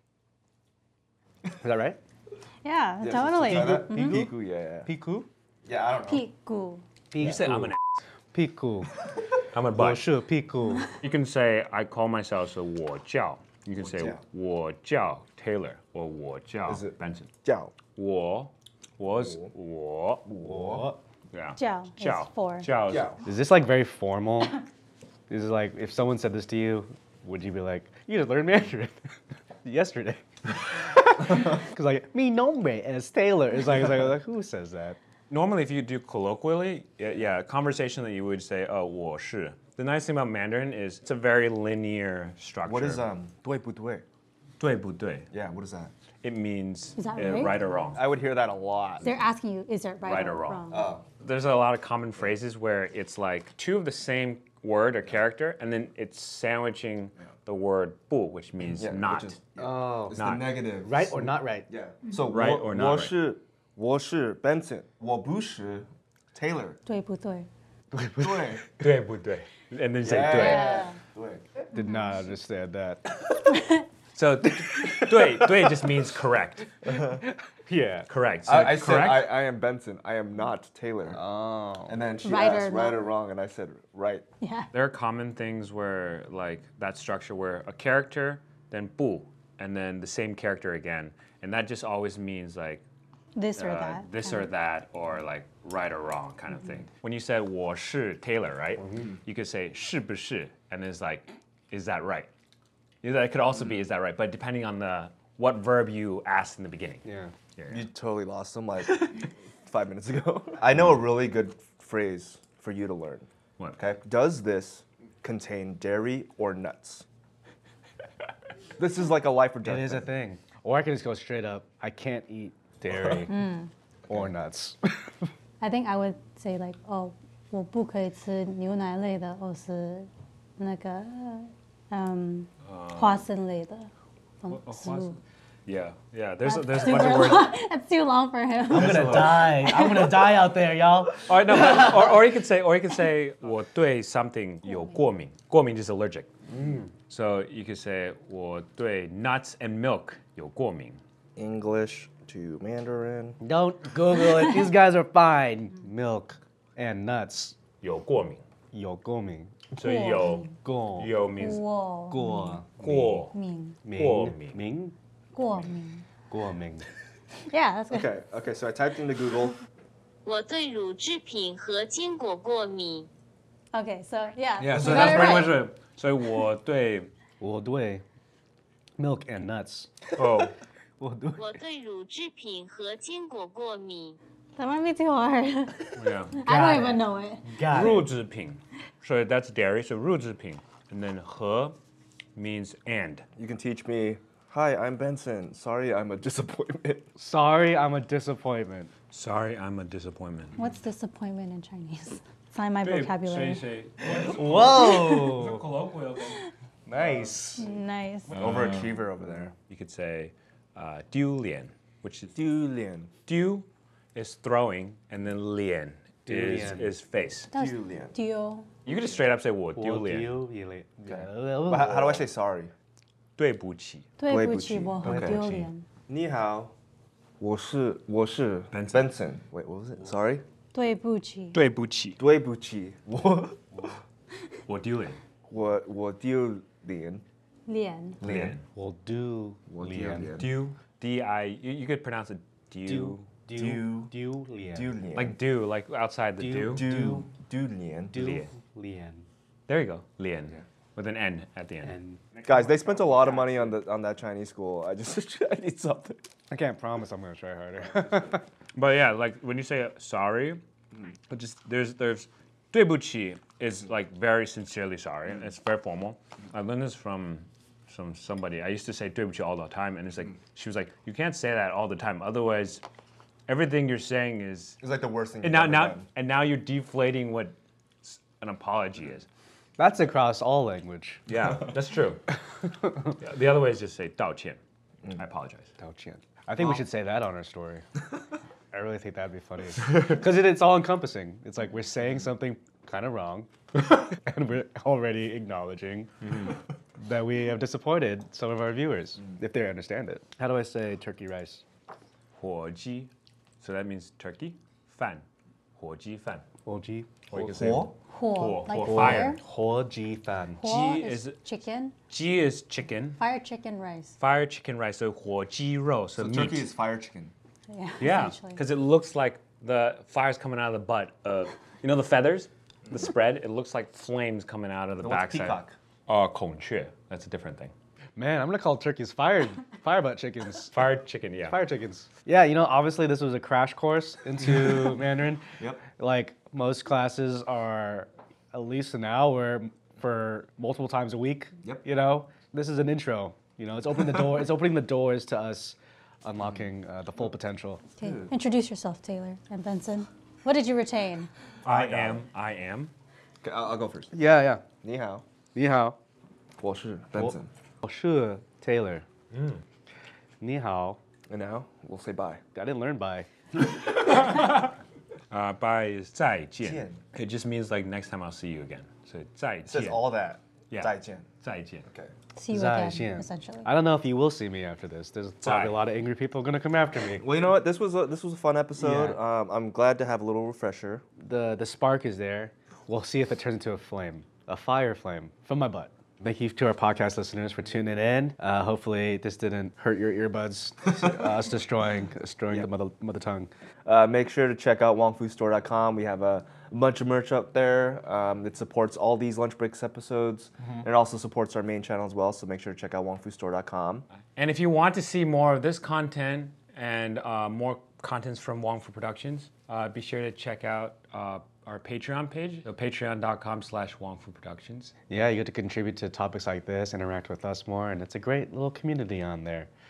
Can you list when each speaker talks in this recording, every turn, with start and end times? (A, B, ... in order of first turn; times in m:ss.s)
0:01.6-0:02.0 A
0:02.6-0:04.2 B
0:03.0-0:04.9 C
0:03.4-0:05.3 A
0:05.6-0:06.2 C
0:06.1-0:06.8 B
0:07.1-0:07.7 A
0:07.2-0:07.8 D
0:08.3-0:08.9 A
0:09.5-0:10.0 D
0:09.7-0:10.9 A
0:11.0-0:17.3 D
0:13.8-0:14.2 C
0:16.7-0:17.7 C
0:18.0-0:20.3 D
0:19.1-0:19.5 C
0:20.2-0:20.9 C
0:20.4-0:21.0 A
0:21.3-0:23.2 D
0:21.6-0:22.7 B
0:22.9-0:23.2 C
0:23.2-0:24.6 A
0:25.3-0:35.0 A
0:35.3-0:43.1 D
0:42.6-0:44.0 C
0:44.6-0:45.2 D
0:45.3-0:45.9 C
0:46.2-0:48.0 D
0:47.0-0:47.6 B
0:47.9-0:49.2 C
0:49.0-0:50.9 B
0:50.0-0:50.6 D
0:50.7-0:51.0 C
0:51.2-0:59.4 D
0:58.6-1:06.8 C
0:59.6-1:00.2 A
1:00.1-1:00.6 D
1:00.8-1:01.7 A
1:02.3-1:03.1 D
1:06.8-1:07.5 B
1:07.9-1:08.6 A
1:08.2-1:08.7 C
1:08.8-1:10.8 D
1:10.0-1:11.4 C
1:10.3-1:11.0 B
1:11.7-1:13.3 A
1:11.7-1:12.2 B
1:13.5-1:13.8 B
1:14.1-1:16.7 D
1:14.7-1:15.7 A
1:16.9-1:17.2 C
1:16.9-1:18.1 A
1:18.1-1:19.3 D
1:18.4-1:21.2 C
1:21.1-1:22.0 A
1:21.9-1:24.2 C
1:22.2-1:23.0 B
1:24.4-1:24.7 B
1:24.7-1:32.8 D
1:33.4-1:34.5 B
1:33.6-1:42.3 D
1:43.0-1:47.0 D
1:47.0-1:47.3 A
1:47.6-1:47.9 D
1:47.7-1:57.0 C
1:58.8-2:00.1 C
1:59.6-2:03.4 A
2:02.9-2:03.3 C
2:03.3-2:03.7 B
2:04.1-2:05.3 A
2:05.6-2:13.9 B
2:12.6-2:13.2 D
2:14.4-2:15.2 B
2:14.5-2:15.2 D
2:15.7-2:17.5 D
2:16.4-2:20.1 B
2:18.7-2:21.8 A
2:18.7-2:19.8 D
2:21.2-2:26.3 D
2:24.6-2:24.9 B
2:26.5-2:26.9 A
2:27.1-2:31.0 D
2:31.4-2:33.4 C
2:33.4-2:37.6 A
2:34.4-2:34.7 B
2:37.8-2:38.4 D
2:38.7-2:39.5 A
2:39.7-2:41.6 D
2:39.8-2:40.5 B
2:40.6-2:41.1 A
2:41.4-2:42.6 B
2:42.1-2:43.2 A
2:42.8-2:43.3 D
2:43.2-2:43.8 B
2:43.8-2:44.9 A
2:43.9-2:44.6 D
2:45.3-2:46.0 B
2:46.3-2:46.9 A
2:47.5-2:48.0 B
2:47.9-2:49.6 C
2:50.2-2:53.1 E
2:53.7-2:55.6 B
2:54.6-2:55.5 C
2:54.6-2:57.1 D
2:57.4-2:58.0 A
2:59.0-3:00.4 A
3:00.2-3:00.5 D
3:01.0-3:01.6 A
3:01.4-3:04.2 E
3:04.6-3:08.0 B
3:06.0-3:06.4 D
3:06.4-3:08.1 A
3:07.7-3:11.8 D
3:12.4-3:13.2 D
3:13.4-3:17.1 C
3:17.2-3:18.9 A
3:19.1-3:20.6 D
3:20.6-3:23.7 B
3:22.8-3:26.5 D
3:24.1-3:25.7 A
3:26.9-3:27.7 A
3:27.0-3:27.3 C
3:27.5-3:28.4 B
3:28.3-3:28.9 D
3:28.4-3:29.5 C
3:29.7-3:32.3 D
3:32.3-3:33.1 C
3:33.3-3:37.5 D
3:36.3-3:36.9 A
3:37.5-3:38.7 B
3:37.5-3:38.1 C
3:38.8-3:40.4 D
3:39.7-3:42.2 A
3:41.0-3:42.7 C
3:43.4-3:44.1 D
3:44.2-3:45.8 B
3:44.3-3:45.4 C
3:45.0-3:45.6 D
3:46.1-3:46.7 C
3:47.4-3:50.4 C
3:48.7-3:49.1 D
3:50.7-3:51.6 B
3:51.5-3:52.2 D
3:52.2-3:53.9 C
3:54.7-3:55.2 D
3:55.5-3:57.2 C
3:57.7-3:58.2 B
3:58.2-3:58.6 C
3:58.2-3:58.6 D
3:58.7-4:00.3 A
3:59.7-4:00.6 C
4:00.3-4:03.3 D
4:02.8-4:05.0 A
4:03.5-4:05.4 C
4:05.1-4:06.9 D
4:06.4-4:07.3 A
4:06.6-4:08.3 C
4:08.1-4:09.2 A
4:08.2-4:08.5 D
4:09.7-4:13.5 D
4:11.8-4:12.2 A
4:12.4-4:16.2 C
4:16.5-4:18.4 A
4:18.7-4:20.6 D
4:21.3-4:32.8 D
4:33.5-4:34.8 D
4:34.8-4:36.1 C
4:35.4-4:39.3 D
4:39.8-4:41.2 A
4:41.3-4:42.2 D
4:42.6-4:43.1 A
4:43.1-4:44.6 D
4:45.1-4:45.7 D
4:45.8-4:47.8 A
4:48.7-4:56.1 A
4:56.2-4:56.5 D
4:57.0-5:01.6 A
5:02.4-5:05.2 D
5:05.8-5:06.4 D
5:06.6-5:07.2 A
5:07.3-5:09.4 D
5:07.3-5:07.9 C
5:08.1-5:09.4 B
5:08.8-5:10.6 A
5:10.6-5:12.0 B
5:10.6-5:11.4 D
5:12.1-5:13.2 D
5:13.2-5:14.1 B
5:14.2-5:16.7 D
5:16.2-5:17.3 C
5:17.7-5:18.6 B
5:18.0-5:27.7 D
5:25.0-5:25.7 C
5:28.2-5:30.8 A
5:30.7-5:31.6 D
5:31.4-5:47.8 A
5:35.6-5:35.8 C
5:48.0-5:51.3 B
5:48.0-5:48.3 C
5:51.6-5:52.9 D
5:51.6-5:52.2 C
5:53.4-5:54.1 C
5:54.1-5:54.6 A
5:54.8-5:55.2 C
5:55.5-5:56.0 A
5:56.6-5:57.5 C
5:57.2-5:59.0 A
5:59.3-5:59.6 D
6:00.4-6:01.0 A
6:01.3-6:02.4 C
6:02.5-6:03.3 A
6:03.6-6:04.8 D
6:05.3-6:10.1 D
6:06.6-6:07.0 C
6:09.6-6:11.3 C
6:10.7-6:11.8 D
6:11.8-6:12.1 C
6:12.4-6:13.7 B
6:12.5-6:17.3 A
6:15.4-6:15.8 D
6:17.2-6:21.0 C
6:18.8-6:19.2 A
6:21.2-6:33.5 A
6:30.9-6:31.4 C
6:33.8-6:44.0 C
6:44.3-6:54.9 D
6:55.1-6:59.7 A